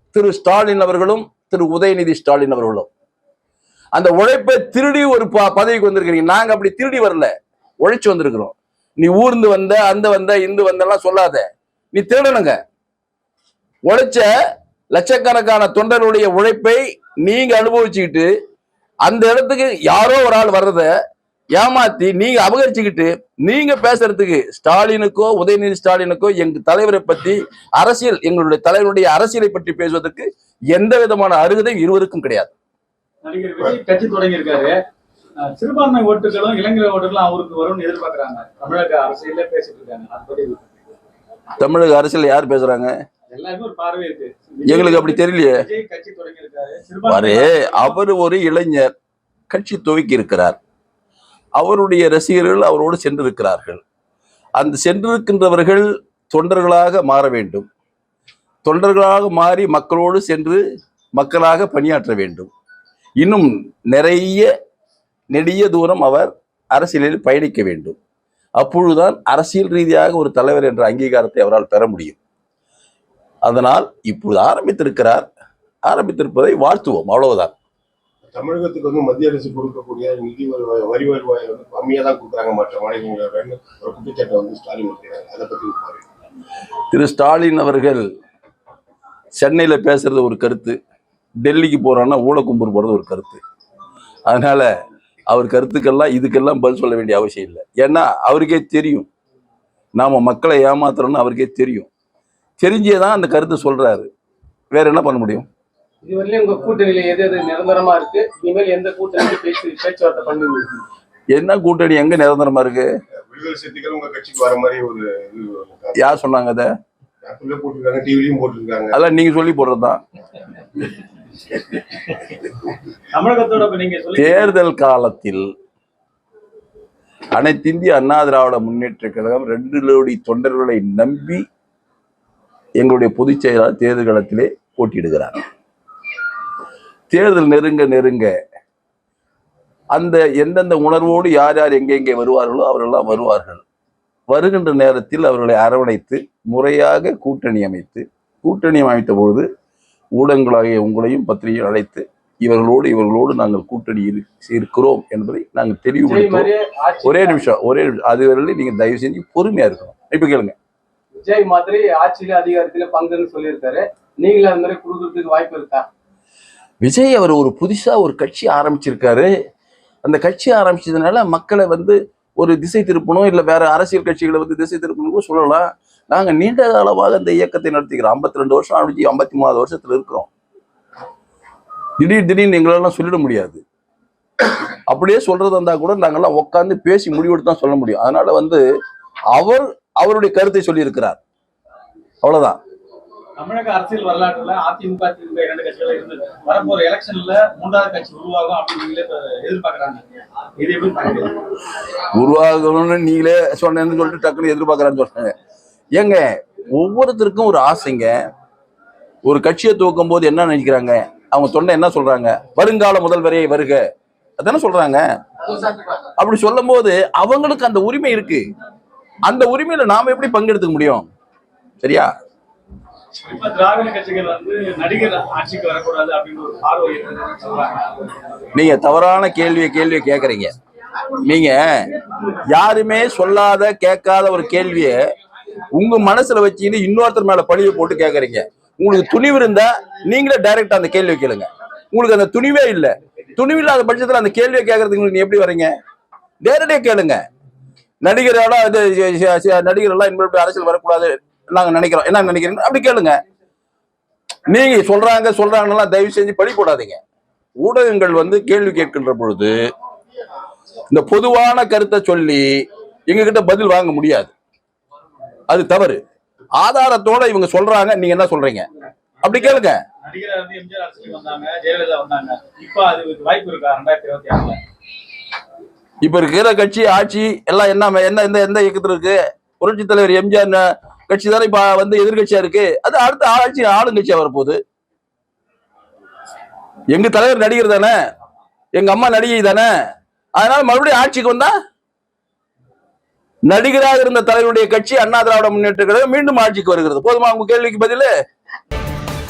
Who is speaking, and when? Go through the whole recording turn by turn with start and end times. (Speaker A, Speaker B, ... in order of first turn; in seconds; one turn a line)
Speaker A: 0.1-2.9
Speaker A: 3.9-12.6
Speaker A: 13.8-14.3
Speaker A: 14.9-18.3
Speaker A: 19.0-20.9
Speaker A: 21.5-32.5
Speaker B: 33.2-34.8
Speaker B: 35.4-40.6
Speaker A: 41.6-42.9
Speaker B: 43.3-48.0
Speaker A: 44.6-45.6
Speaker A: 47.1-48.9
Speaker A: 49.5-50.6
Speaker A: 51.5-53.8
Speaker A: 54.6-57.6
Speaker A: 58.6-60.6
Speaker A: 61.1-62.5
Speaker A: 63.2-64.5
Speaker A: 65.3-68.0
Speaker A: 68.6-72.2
Speaker A: 73.5-75.2
Speaker A: 75.8-77.5
Speaker C: 78.3-86.0
Speaker A: 86.9-88.0
Speaker A: 89.4-90.8
Speaker A: 91.4-93.4
Speaker A: 94.2-94.7
Speaker A: 95.3-99.1
Speaker A: 100.0-101.9
Speaker A: 102.6-104.1
Speaker A: 104.7-105.5
Speaker D: 106.0-110.8
Speaker A: 111.3-112.9
Speaker C: 113.3-116.1
Speaker A: 116.0-116.7
Speaker C: 117.2-119.0
Speaker A: 118.9-120.0
Speaker B: 123.1-124.5
Speaker A: 124.2-125.5
Speaker A: 127.3-131.4
Speaker A: 132.8-135.4
Speaker A: 137.1-138.3
Speaker A: 139.9-143.6
Speaker A: 144.3-149.4
Speaker A: 150.2-156.5
Speaker D: 156.0-157.4
Speaker A: 157.0-160.5
Speaker D: 161.1-165.8
Speaker A: 166.8-169.3
Speaker A: 170.0-180.3
Speaker A: 182.0-183.6
Speaker A: 184.9-188.6
Speaker A: 189.3-191.2
Speaker A: 192.2-192.6
Speaker B: 193.4-200.0
Speaker B: 200.6-201.3
Speaker A: 202.0-205.3
Speaker A: 205.9-208.2
Speaker A: 209.2-213.8
Speaker A: 214.4-215.0
Speaker A: 216.2-218.4
Speaker A: 219.2-221.1
Speaker A: 221.8-222.1
Speaker B: 223.2-227.9
Speaker A: 228.5-230.5
Speaker A: 231.2-231.8
Speaker A: 232.4-235.0
Speaker A: 235.7-245.7
Speaker A: 246.4-247.2
Speaker A: 248.0-253.2
Speaker A: 254.5-257.0
Speaker A: 257.6-259.6
Speaker A: 260.9-262.5
Speaker A: 263.1-264.3
Speaker A: 265.5-266.0
Speaker A: 266.6-268.7
Speaker A: 269.2-269.8
Speaker B: 269.2-274.6
Speaker A: 276.0-284.6
Speaker A: 286.9-287.9
Speaker A: 288.7-289.7
Speaker A: 290.4-291.5
Speaker A: 293.5-298.1